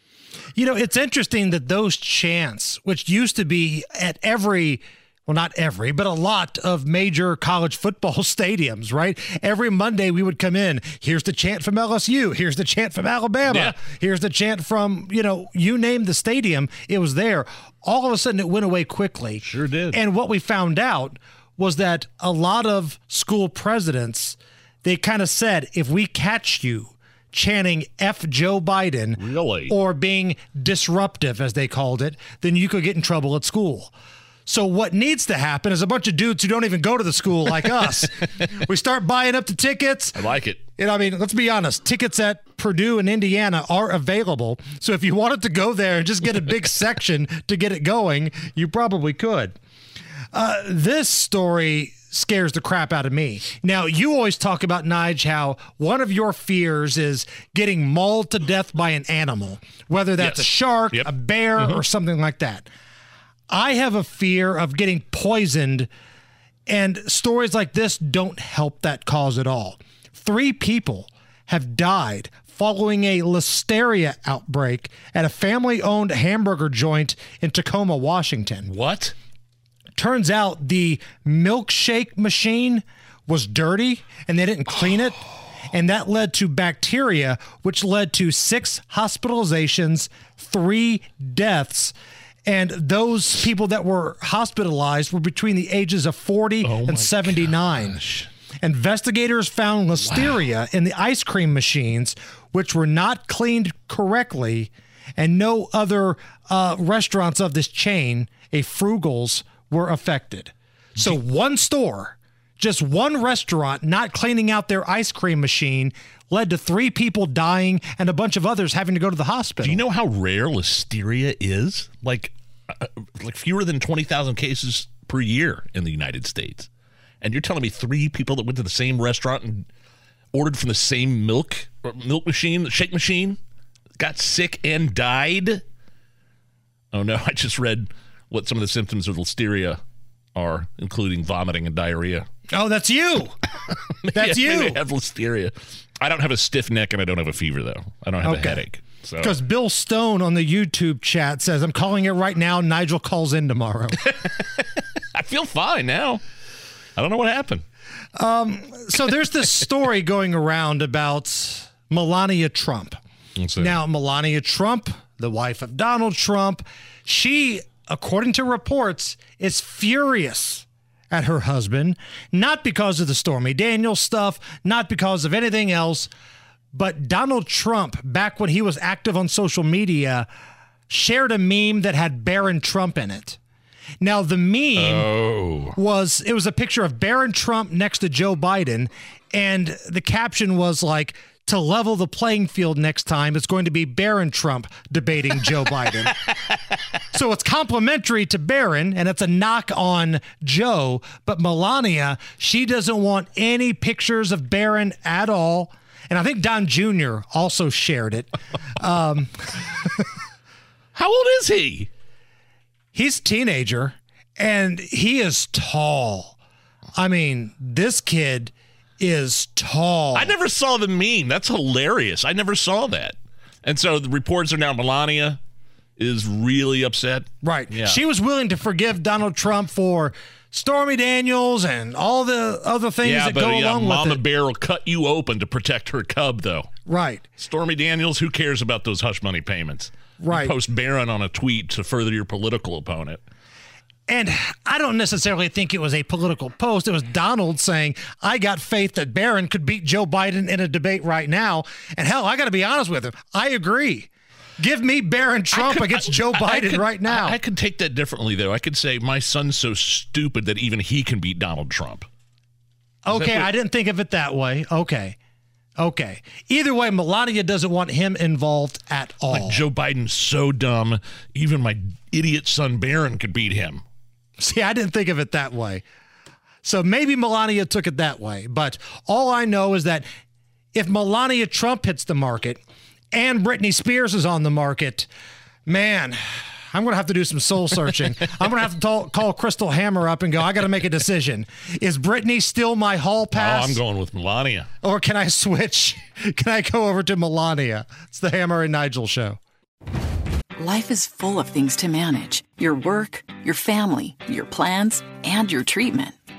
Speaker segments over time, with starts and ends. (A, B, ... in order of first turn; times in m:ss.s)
0:00.6-0:33.9 A
0:13.5-0:13.8 B
0:19.4-0:20.0 B
0:29.2-0:29.7 B
0:34.4-0:40.2 A
0:40.2-0:40.6 B
0:40.8-0:49.6 A
0:50.3-1:02.7 A
1:00.2-1:01.8 B
1:03.5-1:05.9 A
1:06.7-1:18.7 A
1:18.6-1:19.1 B
1:20.0-1:25.2 A
1:25.7-1:31.9 A
1:32.4-1:38.0 A
1:36.6-1:38.3 B
1:38.6-1:59.8 A
1:40.0-1:40.4 B
1:59.6-2:06.7 B
2:07.2-2:09.7 B
2:10.3-2:13.4 B
2:14.0-2:15.6 B
2:16.9-2:19.8 B
2:20.3-2:22.3 B
2:22.5-2:23.3 A
2:24.1-2:29.3 B
2:24.1-2:24.8 A
2:28.2-2:28.6 A
2:29.2-2:34.0 A
2:34.1-2:34.6 B
2:35.1-2:36.2 B
2:37.0-2:37.6 B
2:38.2-2:43.0 A
2:43.4-2:43.8 B
2:43.6-2:56.1 A
2:56.7-3:00.3 A
3:00.9-3:03.4 A
3:04.0-3:05.1 A
3:04.8-3:05.8 B
3:05.7-3:16.1 A
3:17.1-3:29.9 A
3:30.9-3:31.9 B
3:32.9-3:36.4 A
3:36.9-3:40.3 A
3:40.1-3:45.4 B
3:46.0-3:48.0 B
3:47.4-3:54.2 A
3:53.0-3:56.7 B
3:56.8-3:57.2 A
3:57.4-4:03.2 B
4:00.2-4:00.5 A
4:04.1-4:17.4 A
4:15.5-4:22.0 B
4:23.0-4:25.2 A
4:23.1-4:23.5 B
4:25.8-4:29.6 A
4:29.3-4:33.8 B
4:34.4-4:35.8 A
4:36.6-4:40.1 A
4:40.7-4:42.6 A
4:43.1-4:45.1 A
4:45.6-4:53.8 A
4:53.3-4:54.7 B
4:54.8-4:59.4 A
5:00.6-5:06.1 C